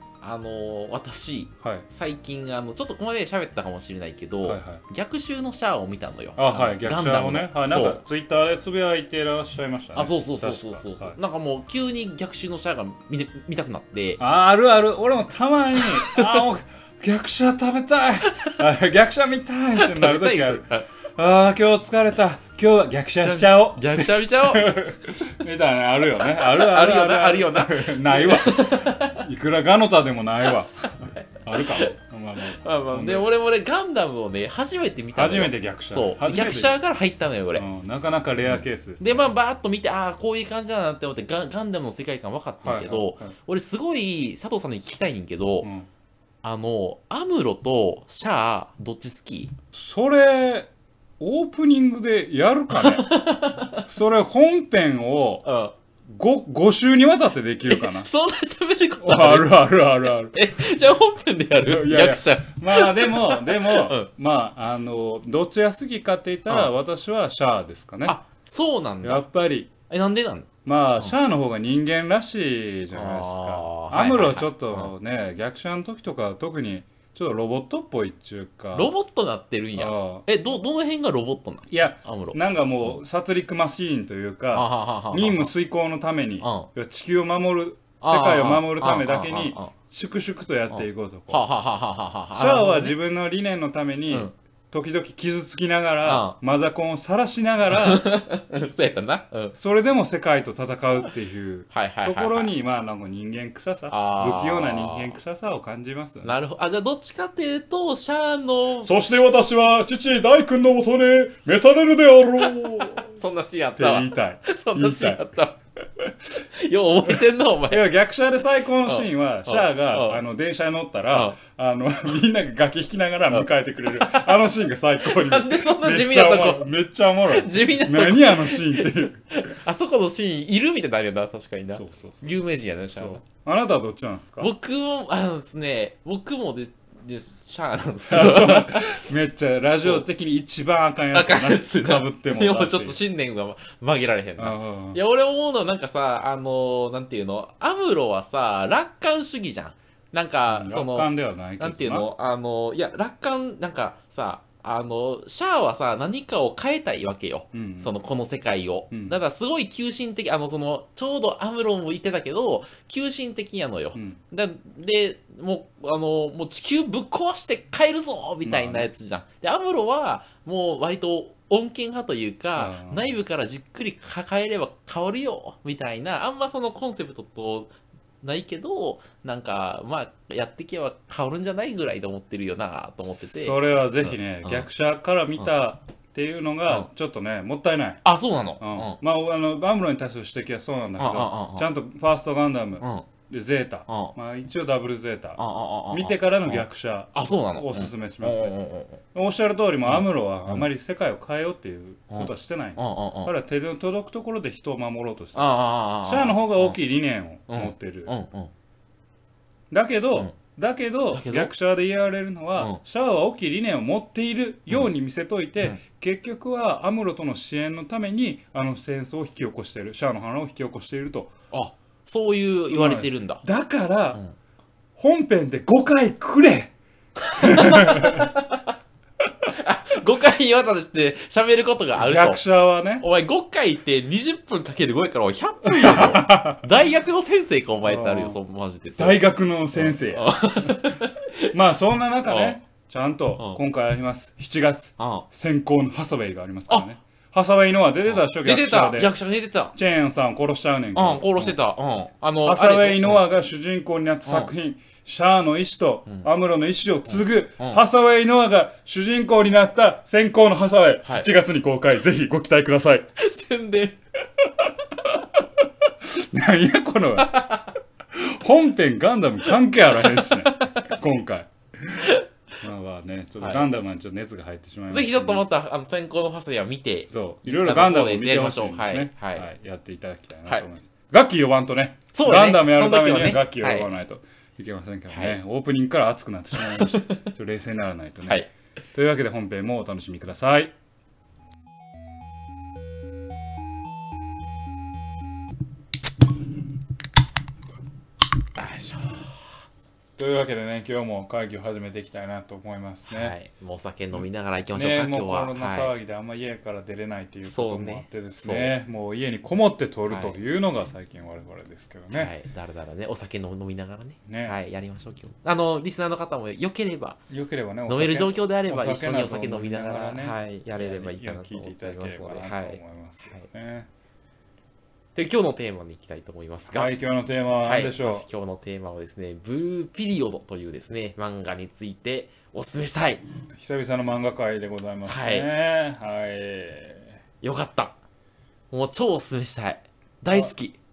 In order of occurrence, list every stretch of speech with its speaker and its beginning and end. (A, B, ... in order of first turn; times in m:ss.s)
0:00.2-0:08.0 A
0:04.4-0:04.8 B
0:06.4-0:11.2 B
0:09.9-0:14.2 A
0:14.2-0:33.3 B
0:15.8-0:16.4 A
0:19.8-0:20.9 A
0:23.2-0:24.8 A
0:26.2-0:29.2 A
0:31.0-0:31.9 A
0:32.5-0:37.6 A
0:35.1-0:36.8 B
0:37.5-0:39.3 B
0:38.5-0:45.7 A
0:42.6-0:43.3 B
0:45.6-0:45.9 B
0:46.4-0:49.5 A
0:49.7-0:53.1 B
0:52.8-0:53.8 A
0:53.8-0:55.5 B
0:55.4-0:55.7 A
0:56.1-0:58.1 B
0:57.6-0:59.6 A
0:59.0-1:00.4 B
1:00.3-1:04.1 A
1:01.6-1:08.2 B
1:08.0-1:09.2 A
1:09.0-1:09.7 B
1:09.9-1:11.1 A
1:10.6-1:18.9 B
1:12.9-1:14.9 A
1:18.7-1:23.0 A
1:19.8-1:20.2 B
1:21.7-1:31.4 B
1:24.5-1:25.5 A
1:26.4-1:26.7 A
1:28.0-1:29.7 A
1:30.7-1:32.9 A
1:32.3-1:38.0 B
1:36.0-1:36.4 A
1:37.7-1:39.6 A
1:39.5-1:46.3 B
1:41.7-1:42.5 A
1:43.9-1:45.2 A
1:46.2-1:49.0 A
1:48.8-1:53.1 B
1:53.1-1:55.6 A
1:53.8-1:55.2 B
1:56.5-1:57.9 A
1:57.1-2:09.5 B
1:58.8-2:00.2 A
2:01.1-2:01.4 A
2:03.3-2:04.4 A
2:05.0-2:06.7 A
2:07.3-2:13.2 A
2:11.7-2:12.3 B
2:12.9-2:14.5 B
2:14.4-2:19.0 A
2:18.1-2:23.0 B
2:21.1-3:04.6 A
2:24.4-2:25.0 B
2:30.5-2:32.1 B
2:37.5-2:37.9 B
2:38.9-2:39.2 B
2:48.4-2:48.9 B
2:52.6-2:53.1 B
3:03.2-3:08.0 B
3:08.0-3:09.0 A
3:08.6-3:15.4 B
3:11.0-3:11.7 A
3:12.8-3:13.1 A
3:13.9-3:14.2 A
3:15.4-3:19.0 A
3:15.9-3:18.5 B
3:19.1-3:28.1 B
3:19.8-3:20.7 A
3:22.1-3:23.3 A
3:25.3-3:26.8 A
3:27.5-3:28.5 A
3:29.7-3:41.3 B
3:31.1-3:31.5 A
3:41.5-3:43.4 A
3:42.7-3:44.2 B
3:45.0-3:46.7 B
3:47.2-3:48.7 A
3:47.4-3:48.3 B
3:49.5-3:52.4 A
3:52.0-3:53.0 B
3:53.0-4:01.5 A
3:55.6-3:56.6 B
3:57.8-3:58.4 B
3:59.0-4:01.0 B
4:01.5-4:09.1 B
4:02.2-4:02.6 A
4:05.0-4:05.3 A
4:08.1-4:09.7 A
4:09.7-4:11.6 B
4:10.9-4:13.2 A
4:12.4-4:23.1 B
4:14.2-4:14.5 A
4:17.1-4:17.8 A
4:23.2-4:24.0 A
4:26.0-4:27.5 B
4:27.2-4:27.7 A
4:28.1-4:35.4 B
4:29.9-4:30.9 A
4:33.4-4:33.7 A
4:34.9-4:39.5 A
4:37.1-4:50.7 B
4:42.1-4:43.9 A
4:45.1-4:45.4 A
4:46.6-4:47.2 A
4:58.6-4:59.3 A
5:00.2-5:03.3 B
5:03.1-5:05.9 A
5:04.1-5:12.3 B
5:07.4-5:08.7 A
5:10.1-5:10.4 A
5:12.1-5:17.2 A
5:14.3-5:14.5 B
5:17.3-5:23.9 B
5:17.9-5:23.5 A
5:25.1-5:26.9 A
5:26.7-5:28.2 B
5:27.6-5:33.2 A
5:33.5-5:37.2 B
5:35.1-5:35.5 A
5:37.4-5:38.0 A
5:38.7-5:40.8 A